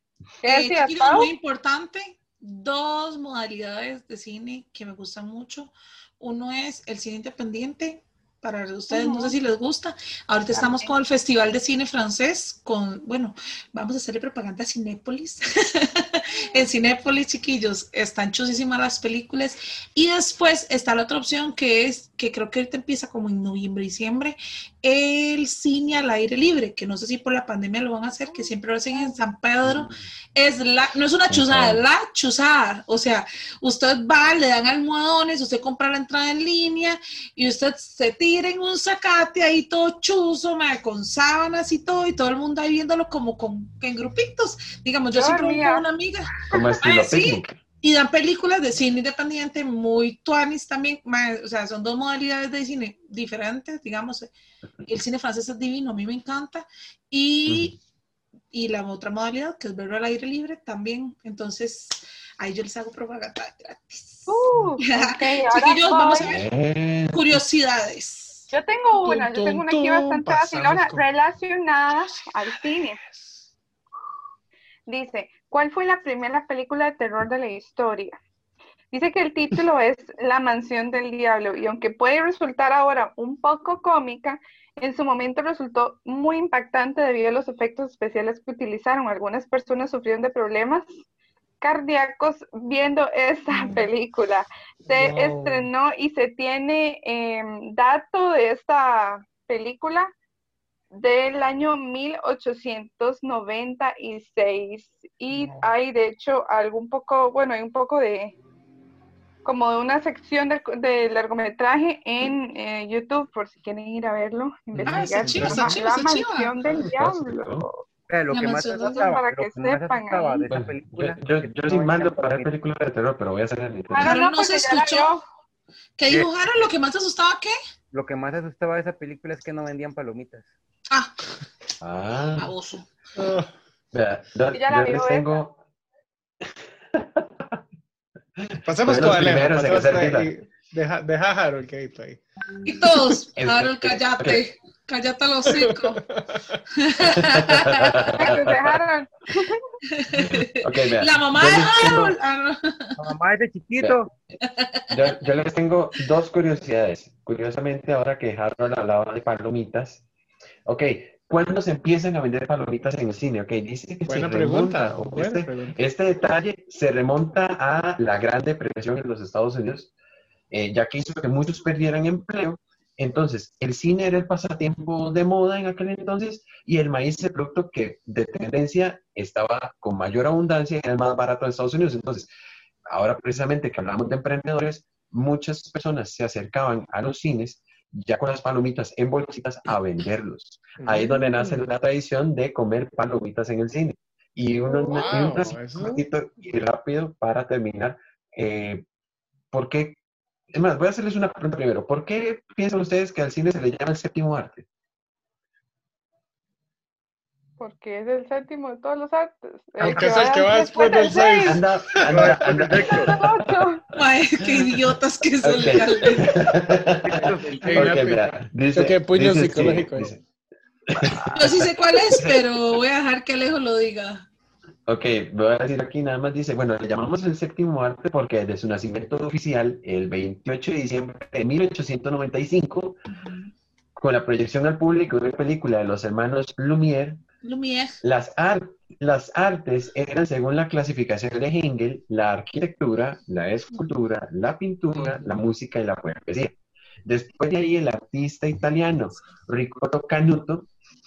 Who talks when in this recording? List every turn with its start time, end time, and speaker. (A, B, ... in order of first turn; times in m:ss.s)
0:00.4-0:01.3 A
0:00.4-0:54.3 B
0:08.9-0:09.3 A
0:28.3-0:29.2 A
0:29.6-0:29.9 C
0:31.3-0:31.8 C
0:45.1-0:45.8 A
0:46.5-0:47.6 C
0:54.8-0:57.8 B
0:57.5-0:57.8 C
0:58.5-1:06.5 B
1:04.3-1:06.3 A
1:06.2-1:07.4 C
1:07.1-1:08.4 B
1:08.5-1:13.0 A
1:09.0-1:11.1 D
1:12.1-1:13.5 D
1:14.9-1:18.2 A
1:18.9-1:31.0 A
1:31.6-1:40.1 A
1:34.8-1:35.7 D
1:41.0-1:48.4 A
1:45.3-1:45.7 D
1:49.4-1:57.8 A
1:54.7-1:55.5 C
1:54.8-1:55.8 D
1:54.9-1:56.5 B
1:56.6-1:57.7 C
1:58.1-2:02.5 E
1:58.3-1:59.2 B
1:58.8-2:00.5 A
2:00.5-2:04.2 C
2:03.9-2:05.2 A
2:04.0-2:05.2 B
2:06.0-2:07.5 B
2:07.9-2:10.5 E
2:11.8-2:12.5 C
2:12.4-2:12.9 B
2:13.2-2:13.5 D
2:13.9-2:15.6 C
2:14.5-2:15.4 A
2:16.9-2:17.5 C
2:18.4-2:20.3 C
2:18.6-2:22.2 D
2:22.6-2:26.0 B
2:23.4-2:24.4 C
2:25.5-2:26.6 D
2:26.8-2:28.0 B
2:27.0-2:28.8 C
2:28.1-2:29.6 A
2:29.9-2:33.0 B
2:30.1-2:32.2 C
2:33.0-2:34.1 E
2:33.8-2:34.4 C
2:34.4-2:35.0 B
2:34.9-2:40.0 C
2:40.7-2:49.9 C
2:44.1-2:45.8 D
2:50.5-3:02.3 C
3:02.9-3:18.8 C
3:10.8-3:11.6 D
3:14.8-3:16.0 D
3:19.5-3:20.0 C
3:20.5-3:24.6 C
3:27.6-3:31.6 A
3:29.8-3:32.9 D
3:31.4-3:33.1 C
3:32.1-3:33.1 E
3:33.0-3:33.8 A
3:33.9-3:36.3 B
3:35.4-3:40.2 C
3:37.0-3:38.0 E
3:37.1-3:40.1 D
3:40.9-3:42.4 C
3:41.3-3:44.2 B
3:44.8-3:53.0 C
3:53.1-3:53.5 B
3:54.0-3:57.2 C
3:57.4-3:58.0 B
3:58.0-4:10.7 C
4:04.9-4:05.2 D